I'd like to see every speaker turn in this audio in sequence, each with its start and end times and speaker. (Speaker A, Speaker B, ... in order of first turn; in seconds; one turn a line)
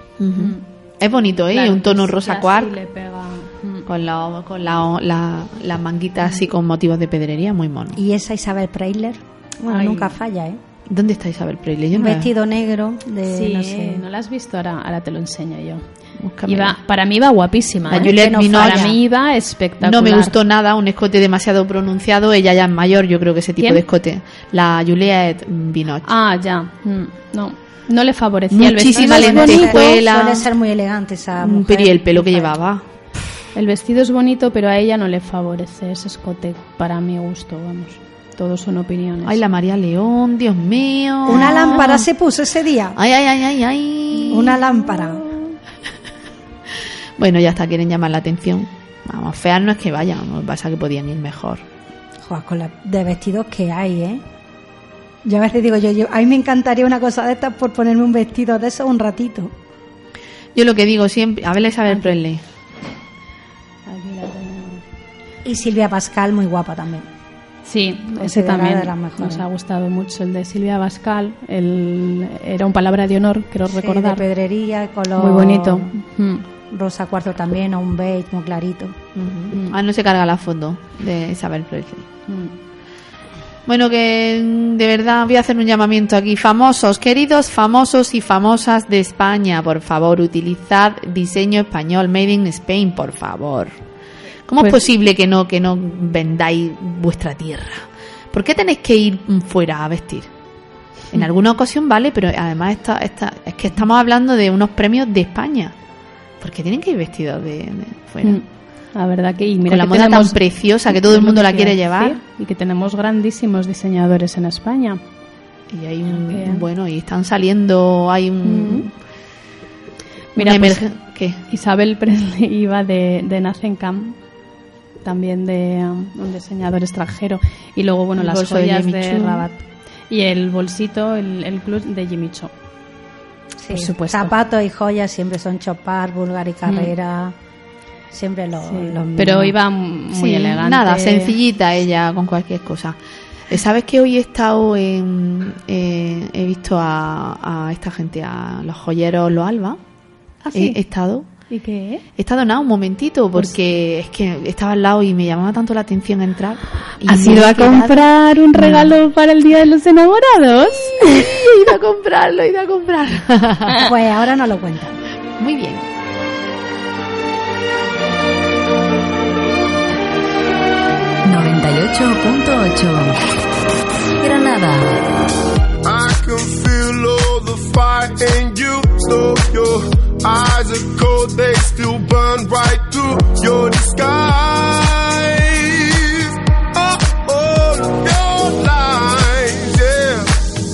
Speaker A: 0.2-2.7
Speaker B: 1.4-3.9
Speaker A: 3.9-8.0
Speaker C: 8.0-10.6
Speaker B: 9.7-10.2
Speaker A: 10.9-12.3
Speaker C: 11.9-14.0
Speaker B: 13.3-15.8
Speaker A: 16.2-16.8
Speaker B: 16.4-20.3
Speaker C: 17.9-18.9
Speaker A: 17.9-18.9
Speaker A: 19.8-26.1
Speaker B: 26.1-29.8
Speaker A: 28.5-30.5
Speaker C: 28.9-32.6
Speaker A: 31.4-32.8
Speaker B: 33.5-39.4
Speaker A: 39.2-42.0
Speaker C: 41.2-43.0
Speaker B: 41.4-42.0
Speaker A: 43.0-44.6
Speaker C: 44.3-45.2
Speaker A: 47.2-51.6
Speaker C: 52.2-54.2
Speaker C: 55.2-59.5
Speaker A: 60.5-62.4
Speaker B: 61.9-62.1
Speaker B: 63.9-64.8
Speaker C: 65.4-67.1
Speaker B: 67.6-74.2
Speaker C: 68.2-69.4
Speaker C: 73.7-75.9
Speaker B: 75.2-76.4
Speaker C: 76.7-78.9
Speaker A: 79.1-82.1
Speaker B: 82.3-82.5
Speaker A: 83.7-93.7
Speaker A: 94.5-100.3
Speaker A: 101.1-105.7
Speaker A: 106.4-108.4
Speaker B: 108.2-110.4
Speaker A: 109.7-112.2
Speaker B: 110.9-115.0
Speaker A: 115.7-118.9
Speaker B: 116.1-116.6
Speaker B: 118.4-118.9
Speaker B: 120.3-120.8
Speaker A: 120.4-121.4
Speaker B: 121.5-124.2
Speaker B: 125.0-132.5
Speaker A: 128.2-129.5
Speaker C: 133.6-137.3
Speaker B: 133.7-134.3
Speaker C: 138.1-139.5
Speaker B: 138.7-141.3
Speaker A: 140.1-143.0
Speaker A: 143.5-149.8
Speaker B: 150.4-150.8
Speaker A: 150.5-151.2
Speaker B: 151.5-152.0
Speaker A: 152.2-158.9
Speaker B: 157.1-161.3
Speaker A: 161.0-163.8
Speaker C: 163.8-165.0
Speaker A: 165.4-165.8
Speaker D: 171.2-173.2
Speaker D: 174.2-174.9
Speaker E: 175.8-190.3